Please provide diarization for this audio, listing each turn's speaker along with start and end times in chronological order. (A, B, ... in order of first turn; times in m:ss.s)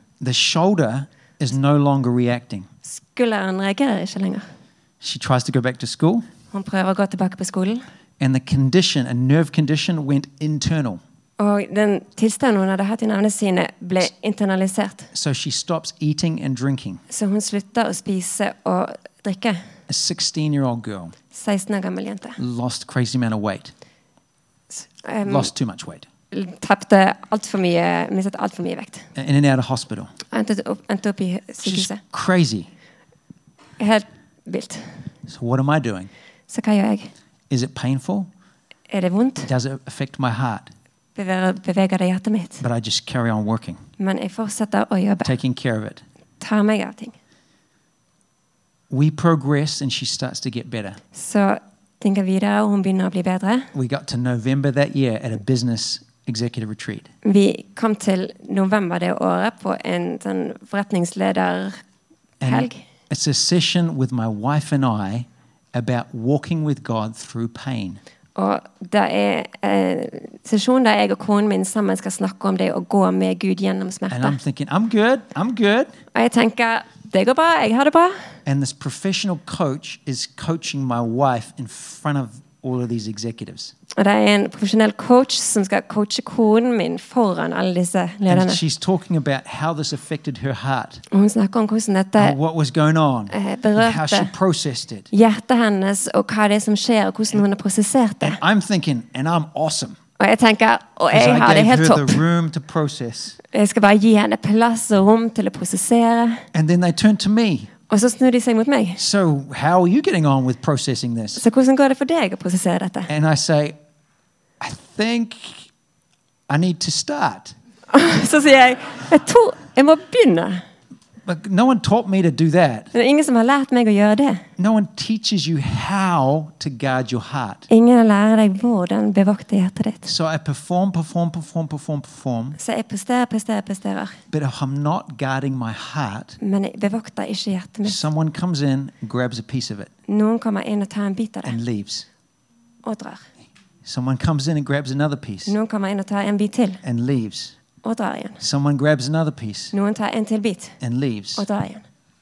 0:00.2-0:02.7 A
0:02.8-0:04.4 B
0:05.0-0:06.3 A
0:06.5-0:07.8 B
0:08.2-0:11.0 A
0:11.4-0:15.1 B
0:15.1-0:17.0 A
0:17.1-0:19.6 B
0:19.9-0:21.1 A
0:21.3-0:22.4 B
0:22.4-0:23.7 A
0:24.7-0:25.5 B
0:25.2-0:26.0 A
0:26.3-0:29.1 B
0:29.1-0:30.1 A
0:30.3-0:32.0 B
0:31.6-0:32.7 A
0:33.8-0:34.9 B
0:35.3-0:36.1 A
0:36.5-0:37.1 B
0:37.5-0:38.3 A
0:38.9-0:39.5 B
0:39.5-0:40.7 A
0:41.2-0:42.6 B
0:42.6-0:43.8 A
0:44.0-0:45.4 B
0:45.2-0:46.0 A
0:46.4-0:47.1 B
0:48.9-0:51.0 A
0:51.1-0:53.7 B
0:53.7-0:57.1 A
0:57.2-1:01.8 B
1:02.4-1:08.0 A
1:02.4-1:02.8 B
1:08.4-1:14.4 B
1:14.1-1:15.9 A
1:16.1-1:18.2 B
1:18.4-1:23.7 A
1:23.9-1:28.6 B
1:28.3-1:31.0 A
1:31.1-1:32.4 B
1:32.2-1:35.1 A
1:33.3-1:34.3 B
1:35.1-1:38.4 B
1:38.2-1:40.0 A
1:40.2-1:42.2 B
1:41.1-1:43.4 A
1:43.5-1:46.4 B
1:46.5-1:47.7 A
1:47.9-1:49.0 B
1:49.0-1:51.4 A
1:51.4-1:53.1 B
1:53.1-1:53.8 A
1:54.6-1:55.7 A
1:56.5-1:57.5 A
1:57.9-2:00.6 B
2:01.2-2:02.9 A
2:02.9-2:04.4 B
2:04.6-2:07.7 A
2:07.7-2:10.1 B
2:10.0-2:12.6 A
2:12.6-2:14.2 B
2:14.3-2:16.4 A
2:16.4-2:18.0 B
2:17.8-2:19.9 A
2:20.1-2:21.6 B
2:21.4-2:22.1 A
2:22.8-2:23.2 B
2:23.8-2:25.5 A
2:25.4-2:26.8 B
2:26.8-2:27.6 A
2:27.8-2:28.4 B
2:28.4-2:29.7 A
2:29.7-2:30.8 B
2:30.8-2:31.4 A
2:31.4-2:31.8 B